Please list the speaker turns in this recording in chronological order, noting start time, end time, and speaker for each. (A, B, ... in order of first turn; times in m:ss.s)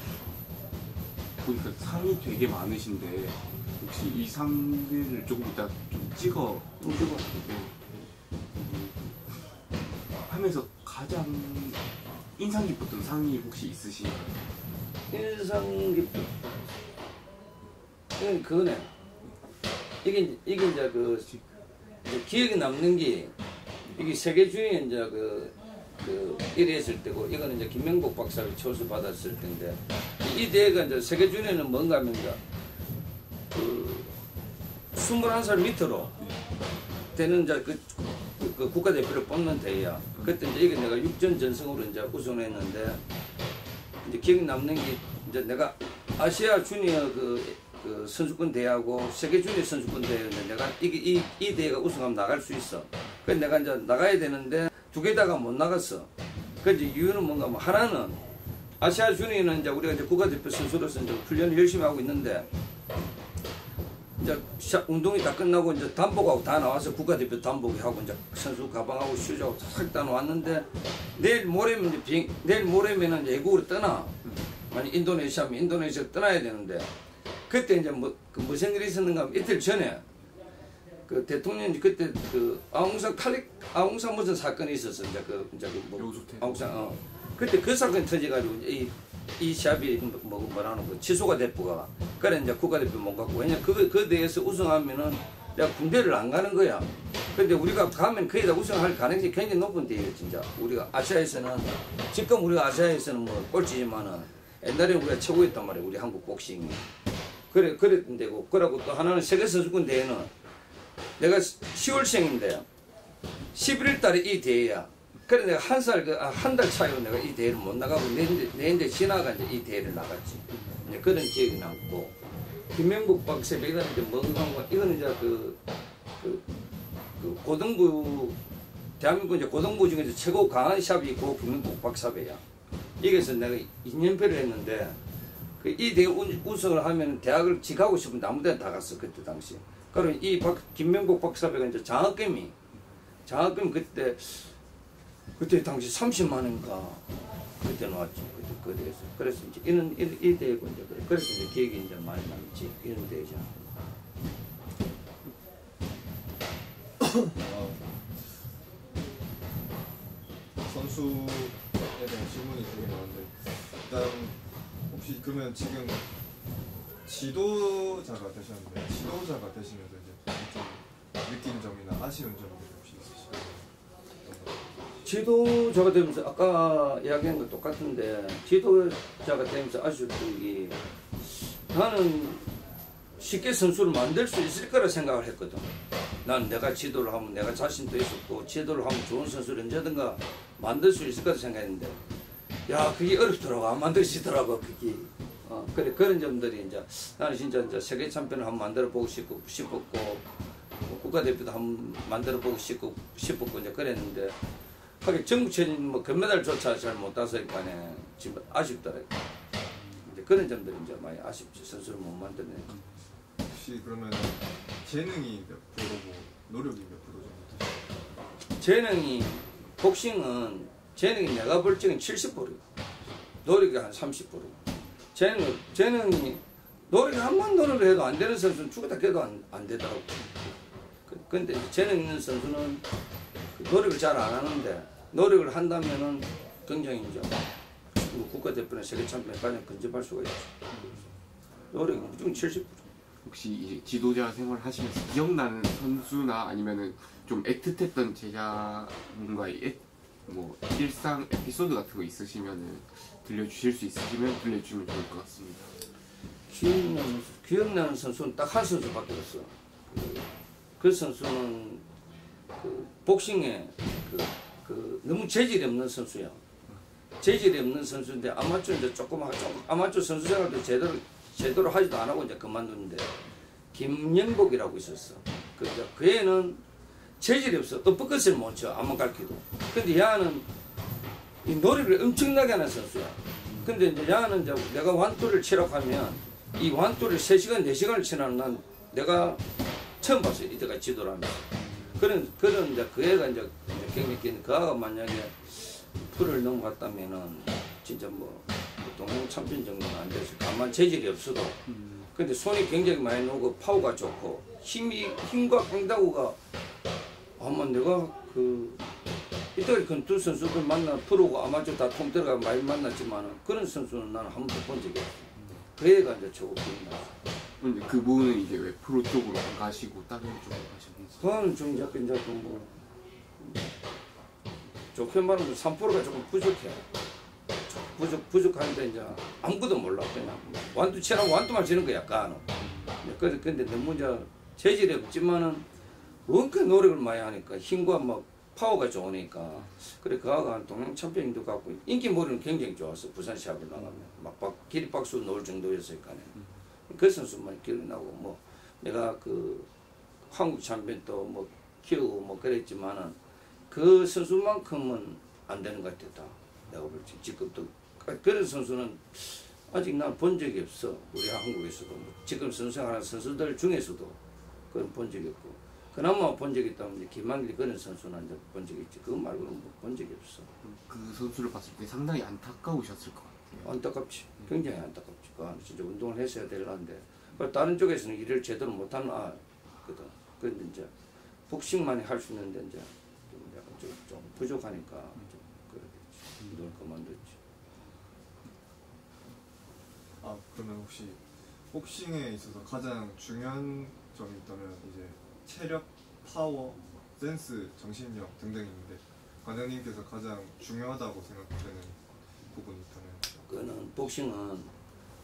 0:01.4-0:06.8 A
0:06.8-0:07.4 B
0:07.3-0:09.5 A
0:10.2-0:14.5 A
0:15.1-0:16.5 B
0:18.2-0:18.9 B
0:20.0-0:21.4 B
0:22.0-0:23.3 B
0:23.9-0:32.4 B
0:33.5-0:34.2 B
0:34.9-0:36.2 B
0:37.1-0:43.0 B
0:44.0-0:56.1 B
0:56.6-0:58.2 B
0:58.8-1:02.5 B
1:04.2-1:14.2 B
1:14.7-1:16.9 B
1:17.5-1:20.0 B
1:21.1-1:46.9 B
1:26.0-1:26.9 A
1:47.5-1:50.3 B
1:51.2-1:52.7 B
1:53.5-2:02.2 B
2:02.7-2:05.6 B
2:06.2-2:06.5 B
2:07.2-2:08.4 B
2:09.0-2:12.4 B
2:13.0-2:15.0 B
2:15.6-2:22.6 B
2:23.3-2:24.5 B
2:25.4-2:33.6 B
2:37.0-2:38.0 C
2:40.6-2:46.1 C
2:47.0-2:53.7 C
2:54.2-2:54.6 C
2:55.0-3:02.6 B
3:03.2-3:05.7 B
3:06.2-3:12.0 B
3:12.7-3:20.3 B
3:20.8-3:24.4 B
3:25.0-3:29.2 B
3:30.0-3:32.8 B
3:33.5-3:37.9 C
3:38.6-3:42.6 B
3:43.4-3:44.6 B
3:45.1-3:50.3 B
3:51.1-3:52.8 B
3:53.5-3:57.4 B
3:58.0-4:00.6 B
4:00.7-4:01.0 A
4:01.7-4:02.8 B
4:03.2-4:15.7 A
4:16.5-4:20.3 B
4:20.8-4:21.8 B
4:22.6-4:26.4 B
4:27.2-4:33.1 B
4:33.7-4:36.6 B
4:37.2-4:40.5 B
4:41.4-4:49.5 B
4:50.0-5:01.6 B
4:51.6-4:52.0 A
5:01.7-5:02.0 A
5:02.1-5:06.4 B
5:07.4-5:08.8 B
5:09.6-5:17.2 B
5:17.6-5:21.4 A
5:21.2-5:22.7 B
5:24.9-5:26.8 B
5:27.7-5:35.7 B
5:36.3-5:46.3 B
5:46.9-5:49.7 B
5:50.3-5:53.2 B
5:53.7-6:04.2 B
6:04.7-6:10.5 B
6:10.6-6:13.6 A
6:13.6-6:20.9 B
6:21.5-6:27.4 B
6:30.2-6:43.4 C
6:43.4-6:44.7 B